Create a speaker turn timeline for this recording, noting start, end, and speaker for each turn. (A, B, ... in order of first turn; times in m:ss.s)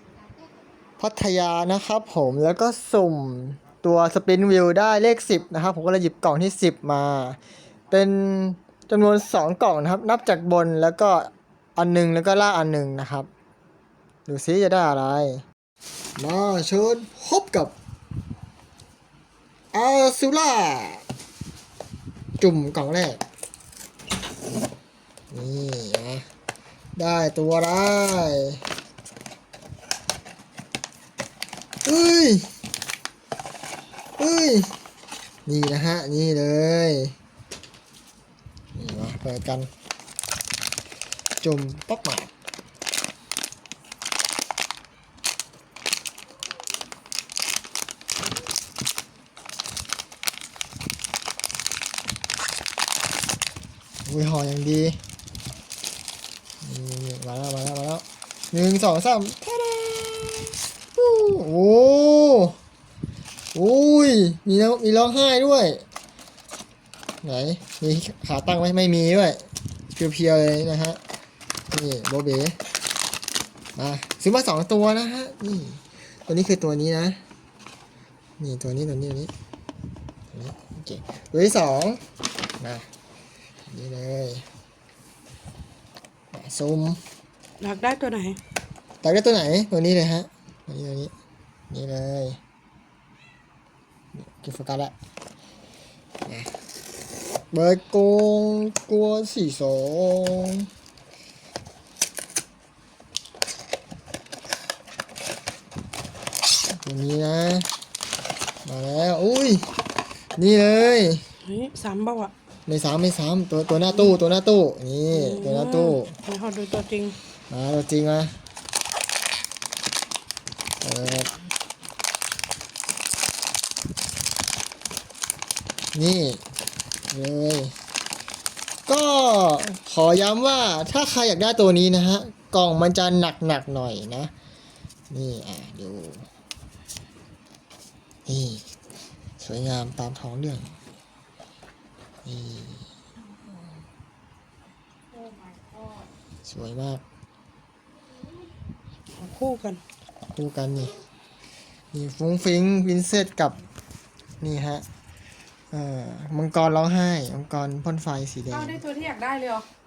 0:01.0-0:07.4 A
0:07.9-0:13.3 A
0:14.3-0:15.4 A
0:16.2-0:17.7 A
0:19.7-0:21.0 A
0:22.4-0:23.2 A
0:25.3-0:26.3 A
0:27.0-0:28.6 A
0:31.8-0:32.5 A
0:34.2-0:34.7 A
0:35.5-0:37.2 A
0:38.7-0:39.7 A
0:41.4-0:42.3 A
0:54.0-0:55.0 A
0:56.6-1:02.6 A
1:03.5-1:05.8 A
1:07.2-1:11.0 A
1:11.7-1:12.6 A
1:13.8-1:17.2 A
1:18.4-1:19.3 A
1:20.3-1:22.0 A
1:22.6-1:22.9 A
1:23.7-1:24.5 A
1:26.3-1:27.0 A
1:27.6-1:28.4 B
1:29.0-1:31.1 A
1:31.7-1:32.4 A
1:34.1-1:34.9 A
1:36.3-1:36.5 A
1:37.5-1:40.7 A
1:46.7-1:47.7 A
1:48.6-1:49.7 A
1:50.4-1:51.2 A
1:51.4-1:52.3 B
1:52.7-1:56.1 A
1:55.1-1:57.2 B
1:57.5-1:58.4 A
2:00.8-2:01.3 A
2:05.9-2:06.4 A
2:07.1-2:07.8 A
2:08.9-2:14.3 A
2:15.1-2:16.3 A
2:18.3-2:18.7 A
2:19.4-2:20.8 A
2:22.2-2:22.9 A
2:25.2-2:25.8 B
2:26.4-2:27.0 A
2:29.1-2:29.8 B
2:30.4-2:31.0 A
2:31.9-2:33.6 A
2:34.4-2:34.8 A
2:35.7-2:38.8 A
2:38.5-2:39.7 B